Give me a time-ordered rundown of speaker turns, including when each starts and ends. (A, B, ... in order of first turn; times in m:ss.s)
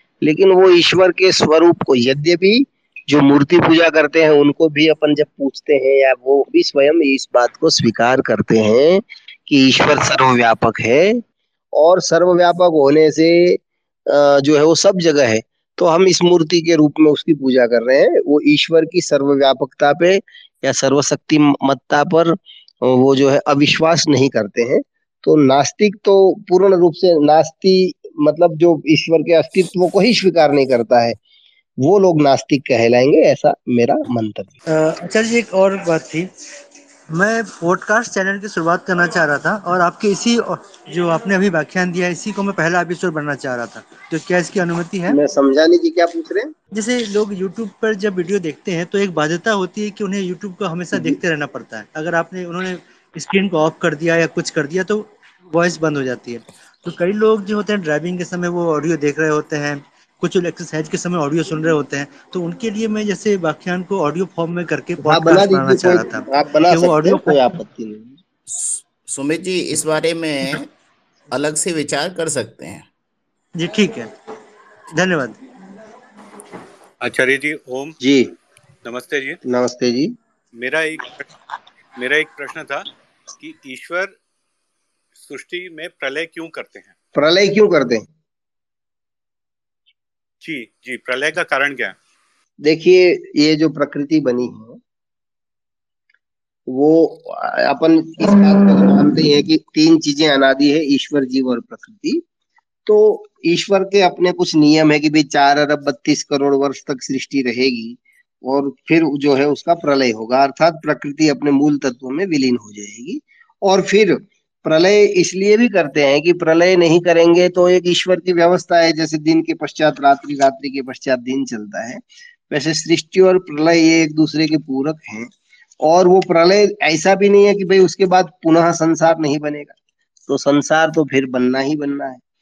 0:00.2-0:11.2 A
0:11.8-0:31.2 A
0:31.8-0:34.5 A
0:34.7-0:36.3 B
0:37.1-0:45.2 B
0:45.1-0:46.5 A
0:46.7-1:07.4 B
0:50.9-0:51.2 A
1:05.0-1:08.2 A
1:08.5-1:10.7 C
1:11.3-1:12.9 C
1:13.6-1:14.1 B
1:14.9-1:15.4 B
1:17.0-1:17.9 D
1:18.0-1:18.3 A
1:18.8-1:19.4 D
1:19.4-1:20.1 A
1:20.6-1:21.3 D
1:22.0-1:22.9 D
1:23.4-1:24.1 D
1:25.1-1:26.9 D
1:27.1-1:28.1 A
1:30.4-1:32.0 D
1:32.6-1:34.8 A
1:36.7-1:42.2 A
1:42.8-2:05.3 A
2:05.8-2:09.8 A
2:10.3-2:12.2 A